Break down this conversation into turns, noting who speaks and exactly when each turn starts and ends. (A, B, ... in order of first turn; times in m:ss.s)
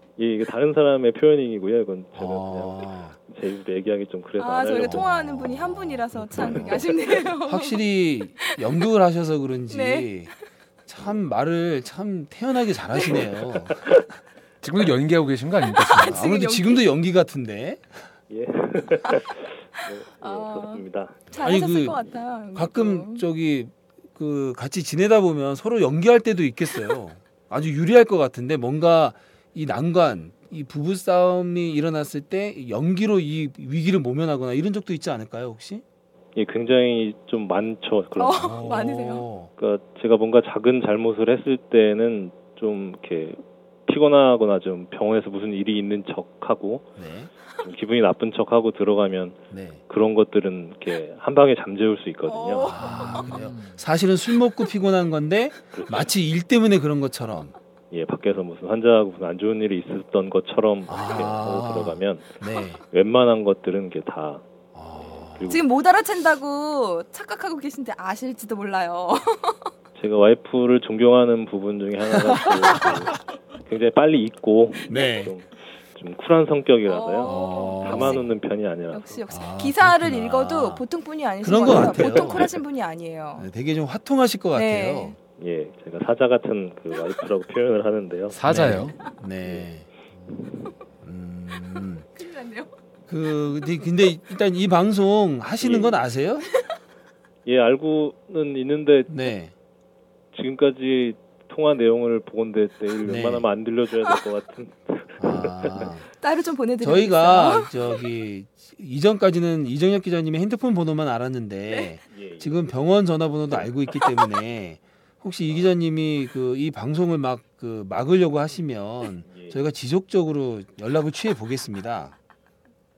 0:00.2-0:05.1 A
0:02.1-0:03.2 B
0:04.4-0:07.8 C
0:04.8-0:10.3 B
0:09.7-0:10.1 C
0:10.9-0:13.8 B
0:13.7-0:14.1 A
0:14.6-0:16.2 D
0:15.7-0:16.9 C
0:16.0-0:18.0 B
0:18.3-0:21.4 A
0:20.2-0:23.2 C
0:21.4-0:35.8 B
0:36.4-0:38.8 A
0:38.2-0:39.3 C
0:38.4-0:39.5 B
0:39.6-0:47.0 A
0:47.0-0:47.3 B
0:47.5-0:52.8 A
0:49.5-0:49.8 B
0:52.3-0:53.2 C
0:52.6-0:57.6 B
0:52.8-0:53.8 D
0:55.7-0:56.1 A
0:57.9-1:05.7 A
1:00.9-1:02.8 B
1:04.7-1:05.6 B
1:05.5-1:09.7 C
1:10.0-1:19.2 A
1:12.1-1:13.2 B
1:14.9-1:15.4 B
1:16.9-1:18.3 C
1:17.2-1:18.3 B
1:18.9-1:23.5 C
1:19.3-1:20.8 B
1:21.4-1:22.6 B
1:23.4-1:25.2 B
1:24.5-1:25.2 C
1:25.4-1:28.6 A
1:28.3-1:29.0 D
1:28.4-1:30.4 B
1:31.0-1:32.1 B
1:32.2-1:32.7 C
1:33.1-1:36.5 B
1:35.6-1:36.0 A
1:37.5-1:39.1 A
1:39.1-1:39.5 B
1:40.3-1:45.9 A
1:43.0-1:43.5 B
1:45.2-1:46.1 B
1:46.2-1:47.7 C
1:46.8-2:02.2 B
1:47.5-1:48.0 A
1:52.0-1:52.7 A
1:59.2-1:59.6 A